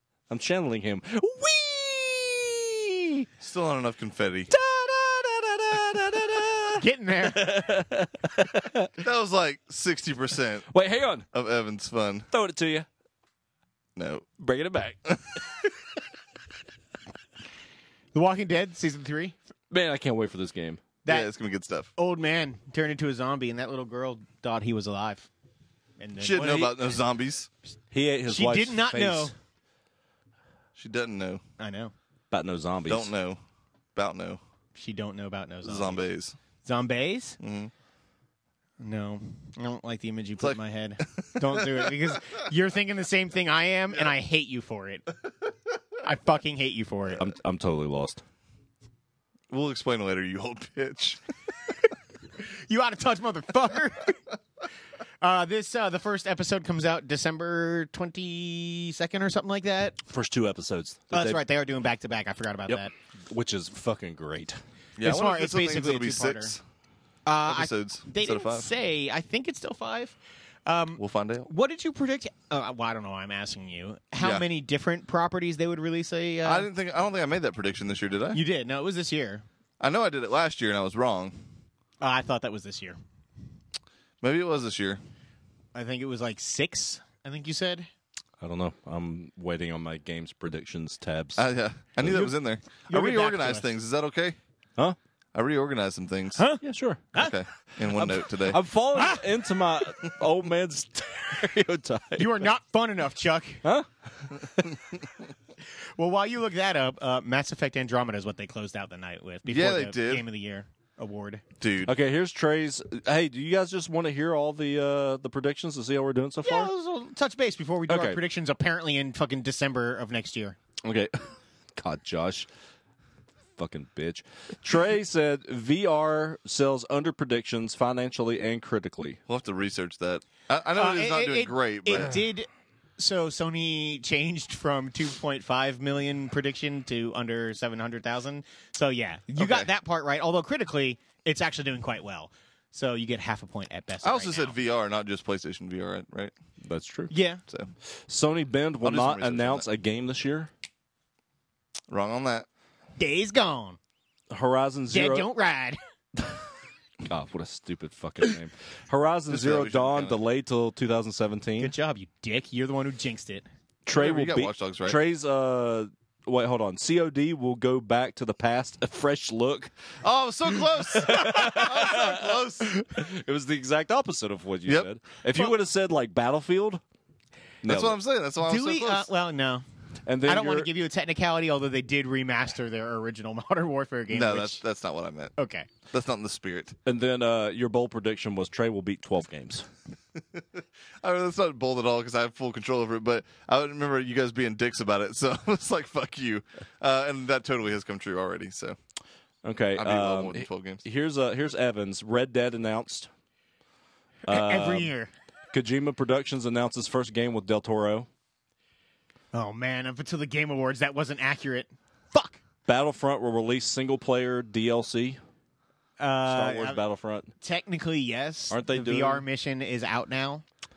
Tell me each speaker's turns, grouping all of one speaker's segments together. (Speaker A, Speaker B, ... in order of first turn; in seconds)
Speaker A: 0.3-3.3, 4.5-8.9, 10.7-11.2, 12.3-12.9, 14.4-15.4, 19.7-20.8, 26.4-26.8, 27.9-29.3, 32.3-33.1, 47.2-48.2, 60.1-61.4, 62.7-64.6, 88.4-91.4, 96.6-97.1, 97.8-102.5, 103.6-104.8, 111.9-116.7, 117.9-118.2, 120.8-122.5, 123.6-129.2, 146.6-147.1, 148.1-150.5, 154.3-155.3, 157.0-161.7, 163.9-169.8, 171.0-172.2, 172.9-176.8, 177.6-178.0, 180.1-180.7, 186.9-189.7, 199.4-203.1, 204.3-204.9, 205.5-208.1, 212.7-215.2, 216.2-217.3, 218.5-219.2
Speaker B: 3.4-4.5, 9.0-10.7, 11.3-12.3, 13.9-14.3, 21.1-21.9, 26.2-27.5, 30.8-31.4, 32.9-33.4, 33.9-34.4, 35.6-36.4, 37.4-37.7, 40.4-42.0, 49.5-51.2, 65.0-66.6, 67.5-68.7, 71.0-71.5, 74.2-74.4, 76.4-78.4, 79.8-81.4, 84.2-85.0, 91.4-94.4, 95.3-96.4, 97.2-98.6, 109.5-110.2, 111.6-111.9, 129.3-132.2, 139.4-139.7, 144.0-146.3, 148.8-149.7, 151.9-152.5, 159.3-160.2, 163.9-165.0, 170.0-172.7, 177.6-179.1, 184.1-185.3, 185.9-186.8, 190.3-198.8, 199.8-200.8
Speaker C: 6.8-7.6, 18.1-19.4, 21.0-21.3, 21.9-25.3, 26.0-26.7, 28.3-29.3, 31.6-31.9, 34.7-36.1, 36.6-37.4, 38.8-45.1, 46.0-47.2, 52.7-54.2, 55.2-60.0, 61.1-62.9, 65.0-66.6, 67.2-76.7, 78.3-79.4, 82.0-83.0, 85.7-87.9, 92.0-93.7, 96.4-96.6, 98.9-99.2, 102.2-103.6, 106.0-111.4, 116.4-120.6, 130.8-144.5, 147.1-147.4, 153.0-153.8, 154.9-155.8, 161.6-163.4, 171.1-171.6, 178.4-179.6, 180.2-184.6, 185.4-185.7, 204.3-205.1, 209.3-212.4, 216.0-216.8, 217.4-220.4